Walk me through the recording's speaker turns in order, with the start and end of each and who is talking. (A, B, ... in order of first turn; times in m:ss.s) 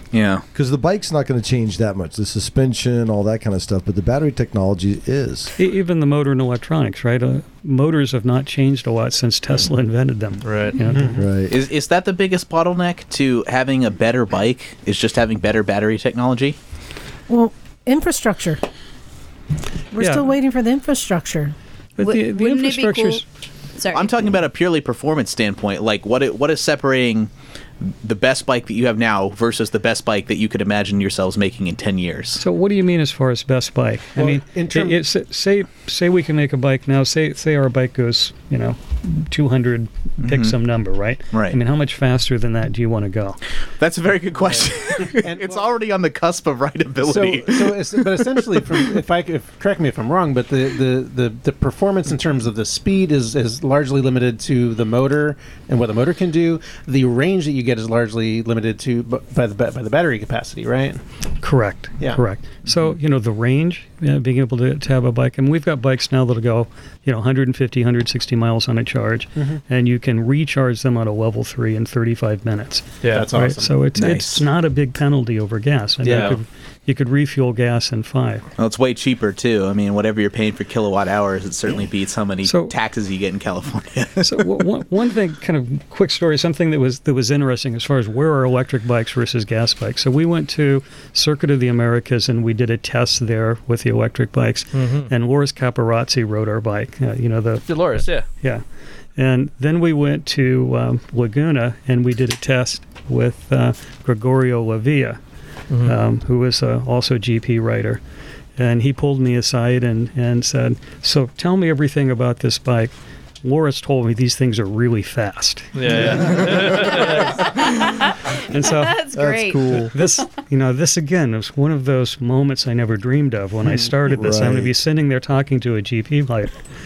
0:00.1-0:00.4 A
0:00.5-0:05.5 B
0:05.6-0:11.2 C
0:10.4-0:10.7 D
0:11.1-0:11.5 B
0:11.5-0:16.6 A
0:17.3-0:18.6 E
0:19.9-0:21.5 E
0:20.0-0:20.3 C
0:22.0-0:23.2 C
0:22.0-0:23.2 F
0:23.8-0:24.2 F
0:23.9-0:27.3 A
0:28.0-0:32.4 A
0:32.4-0:43.4 C
0:34.1-0:35.0 G
0:40.2-0:40.5 A
0:41.3-0:41.6 A
0:43.8-0:48.8 A
0:44.4-0:45.8 G
0:47.0-1:01.0 G
1:01.4-1:18.4 C
1:02.0-1:02.2 G
1:13.0-1:13.3 D
1:13.1-1:13.8 G
1:13.9-1:14.4 A
1:16.0-1:16.4 D
1:18.6-1:24.6 A
1:22.4-1:22.7 C
1:24.2-1:38.6 C
1:34.7-1:35.1 D
1:37.7-1:38.2 D
1:39.2-1:45.2 C
1:45.7-1:46.0 D
1:45.8-1:48.0 C
1:48.6-1:56.4 C
1:55.8-1:57.2 D
1:57.5-1:57.9 F
1:58.5-1:59.0 C
1:58.6-1:59.8 F
1:59.1-1:59.9 B
1:59.9-2:06.5 C
2:04.1-2:04.7 B